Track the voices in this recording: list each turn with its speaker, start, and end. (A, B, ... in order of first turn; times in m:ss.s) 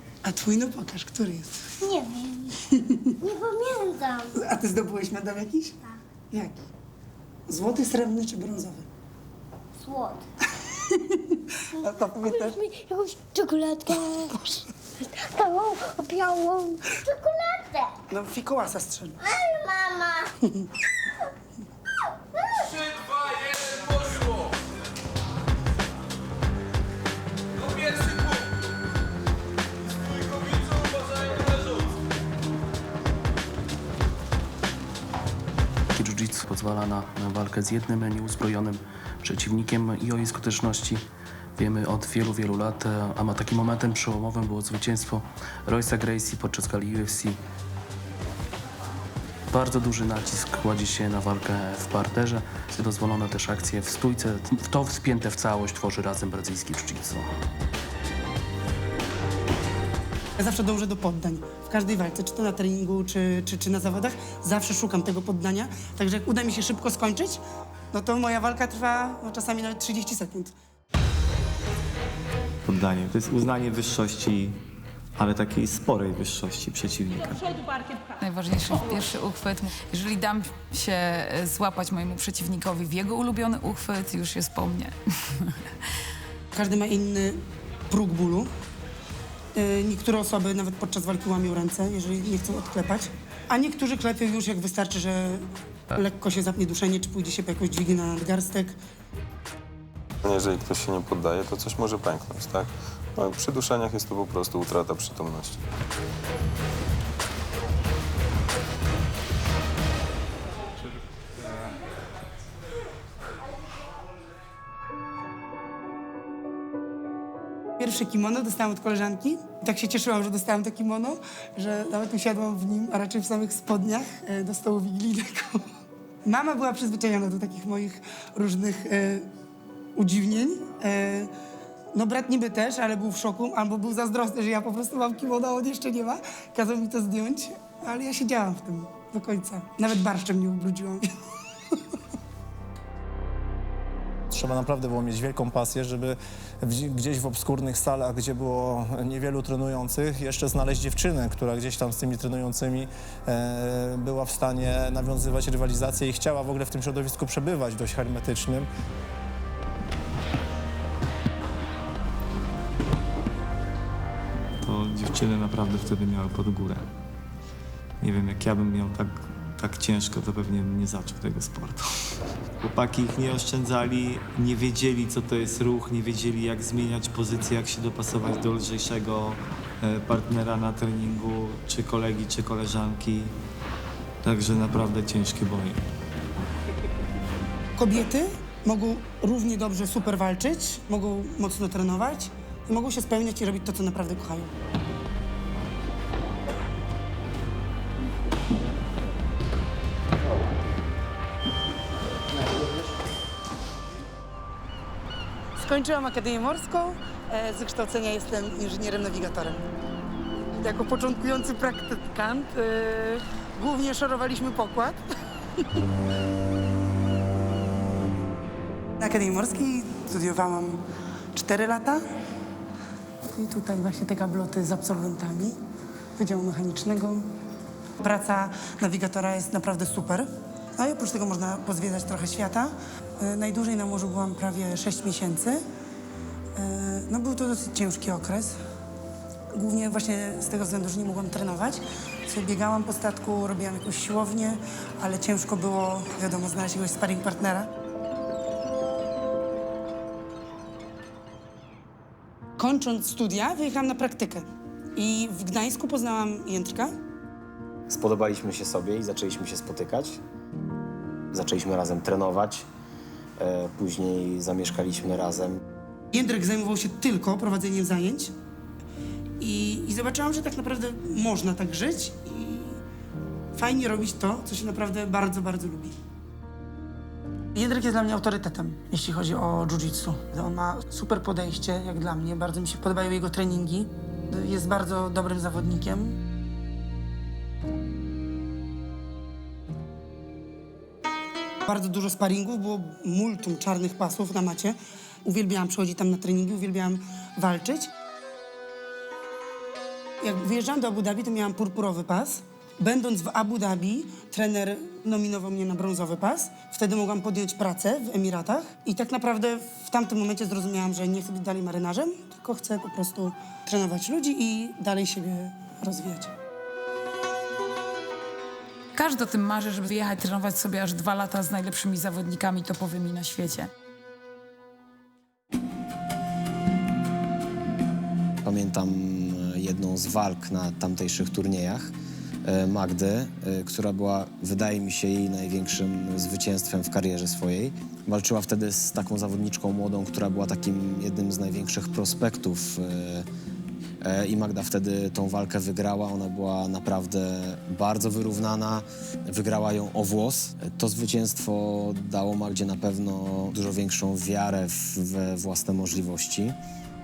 0:00.2-0:01.7 A
0:01.8-0:02.6 B
0:02.7-0:03.1 A
0:03.2-0:04.4 B
0:04.3-0:06.6 A
0:07.5-0:08.9 A
0:09.8-0:10.2 B
0:10.9-0:12.6 A
0:11.8-0:14.4 B
0:15.0-0:17.9 B
0:18.1-0:19.2 A
0:19.2-0:20.3 B
0:22.3-0:23.0 B
0:35.9-0:47.4 C
0:49.5-0:57.3 C
1:00.4-1:10.5 A
1:12.6-1:14.6 D
1:15.2-1:17.6 D
1:18.2-1:25.6 E
1:26.5-1:28.5 A
1:29.5-1:38.8 A
1:40.2-1:45.6 F
1:57.8-2:05.7 A
2:06.2-2:09.3 A
2:10.0-2:11.3 A
2:11.9-2:21.1 A
2:24.3-2:38.7 G
2:44.6-2:46.9 D
2:48.0-2:51.8 D
2:52.6-3:03.3 D
3:04.2-3:05.8 D
3:07.8-3:14.5 A
3:25.6-3:29.6 A
3:30.5-3:35.0 A
3:39.0-3:40.8 A
3:41.3-3:42.0 A
3:43.2-3:45.6 A
3:46.2-3:47.3 A
3:48.0-3:55.6 A
3:56.6-3:58.6 A
3:59.5-4:07.7 A
4:12.6-4:16.9 A
4:17.9-4:20.2 H
4:21.3-4:22.7 H
4:23.4-4:25.6 H
4:26.1-4:28.3 A
4:29.4-4:32.8 A
4:33.5-4:35.9 A
4:37.5-4:46.2 A
4:51.6-4:57.9 A
5:00.2-5:16.3 A
5:18.9-5:23.7 E
5:28.4-5:31.9 H
5:32.4-5:43.3 H
5:44.0-5:56.6 H